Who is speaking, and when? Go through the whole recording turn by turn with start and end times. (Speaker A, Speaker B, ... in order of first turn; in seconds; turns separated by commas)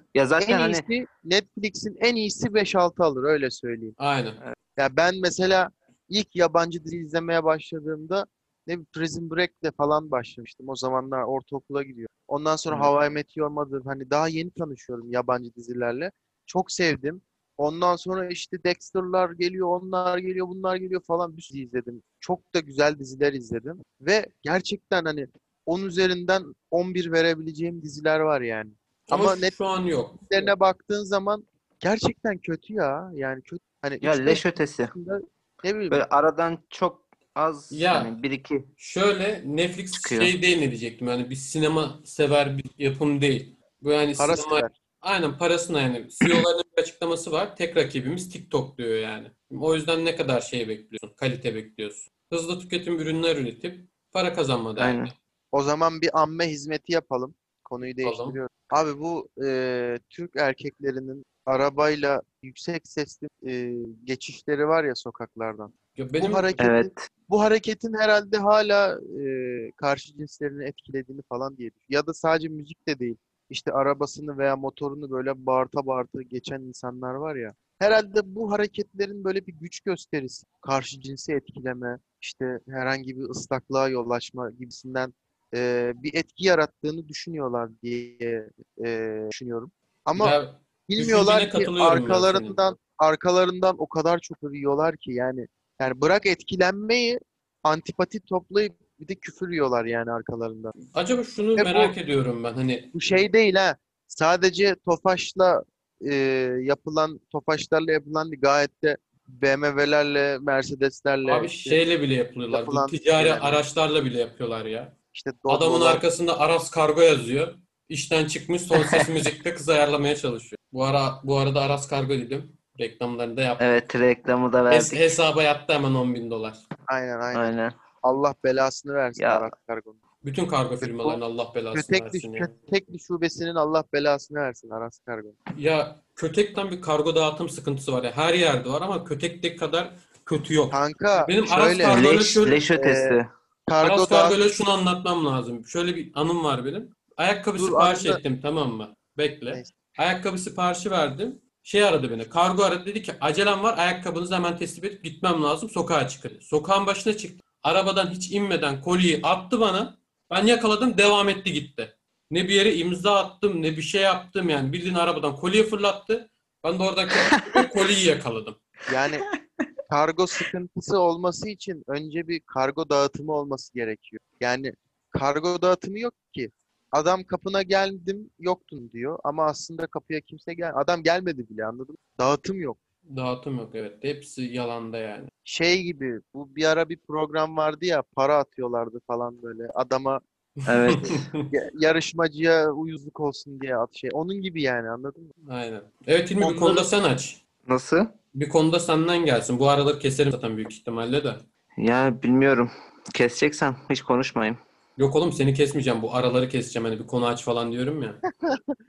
Speaker A: 0.1-0.9, Speaker B: 0.4-4.0, Speaker C: 4.0-4.4, Speaker B: 4.8-29.6, Speaker C: 29.1-30.4, Speaker B: 30.3-36.0, Speaker A: 34.0-34.9, Speaker A: 35.9-38.7, Speaker C: 37.7-38.1, Speaker C: 38.8-55.1, Speaker A: 40.0-40.4, Speaker B: 44.2-44.7, Speaker A: 54.8-55.1, Speaker B: 55.5-90.4, Speaker C: 58.0-58.4, Speaker C: 66.0-66.6, Speaker A: 66.6-67.1, Speaker C: 90.2-92.6, Speaker B: 90.9-100.8, Speaker C: 100.9-102.9, Speaker B: 101.6-102.0, Speaker B: 102.9-111.8, Speaker C: 111.2-114.9, Speaker B: 112.5-113.7, Speaker B: 115.1-116.0, Speaker C: 115.5-123.8, Speaker A: 118.8-119.0, Speaker A: 123.6-125.1, Speaker C: 124.7-126.7, Speaker B: 126.9-130.0, Speaker A: 127.3-127.8, Speaker A: 129.2-129.5, Speaker C: 130.2-132.5, Speaker B: 130.8-131.2, Speaker B: 131.7-135.4, Speaker C: 135.6-142.6, Speaker B: 140.7-142.1, Speaker A: 141.9-143.3, Speaker B: 142.8-144.4, Speaker C: 143.8-168.6, Speaker B: 147.6-148.2, Speaker A: 167.3-167.6, Speaker B: 168.9-169.2, Speaker B: 169.9-182.8, Speaker C: 183.1-185.3, Speaker B: 185.5-190.2, Speaker C: 190.7-191.5, Speaker A: 190.7-191.3, Speaker B: 191.5-195.3, Speaker C: 195.4-197.4, Speaker B: 196.4-196.9, Speaker A: 197.7-198.1, Speaker C: 198.3-201.4, Speaker A: 201.8-204.6, Speaker C: 205.0-208.2